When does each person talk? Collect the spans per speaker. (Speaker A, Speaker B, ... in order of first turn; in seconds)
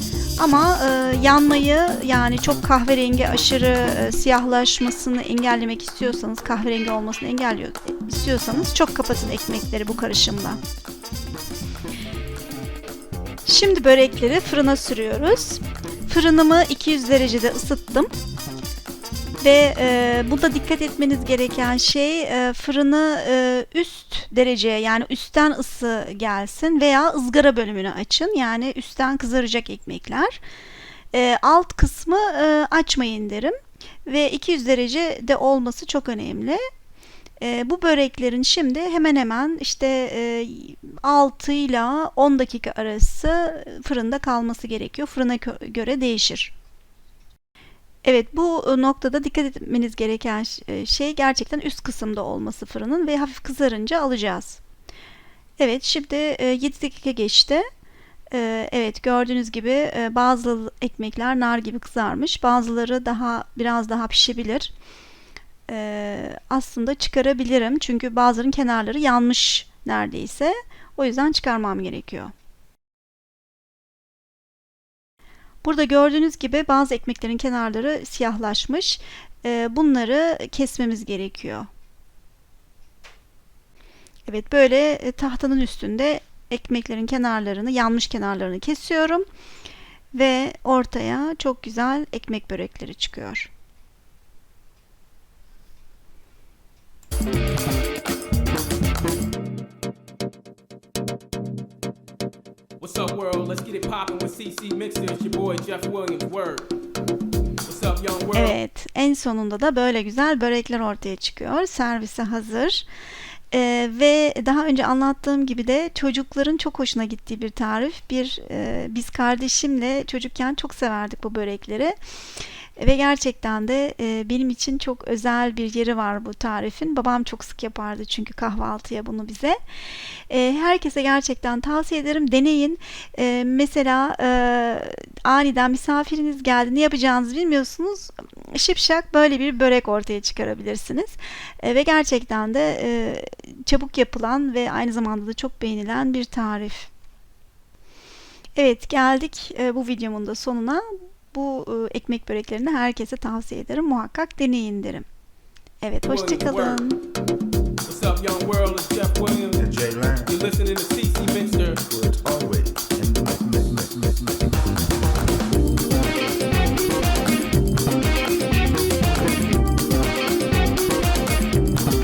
Speaker A: 0.4-10.6, 13.4-18.1, 19.4-30.4, 31.1-36.6, 37.4-46.5, 48.0-54.6, 55.6-57.7, 58.3-64.7, 65.7-72.3, 75.6-81.7, 84.3-89.3, 90.1-93.5, 108.3-112.9, 113.5-122.0, 122.8-129.6, 130.3-146.9, 148.6-155.1, 155.8-157.0
Speaker B: 102.8-106.7, 107.7-108.6, 156.0-156.9, 157.8-159.7, 160.2-161.8
Speaker C: 159.6-160.3, 161.8-164.6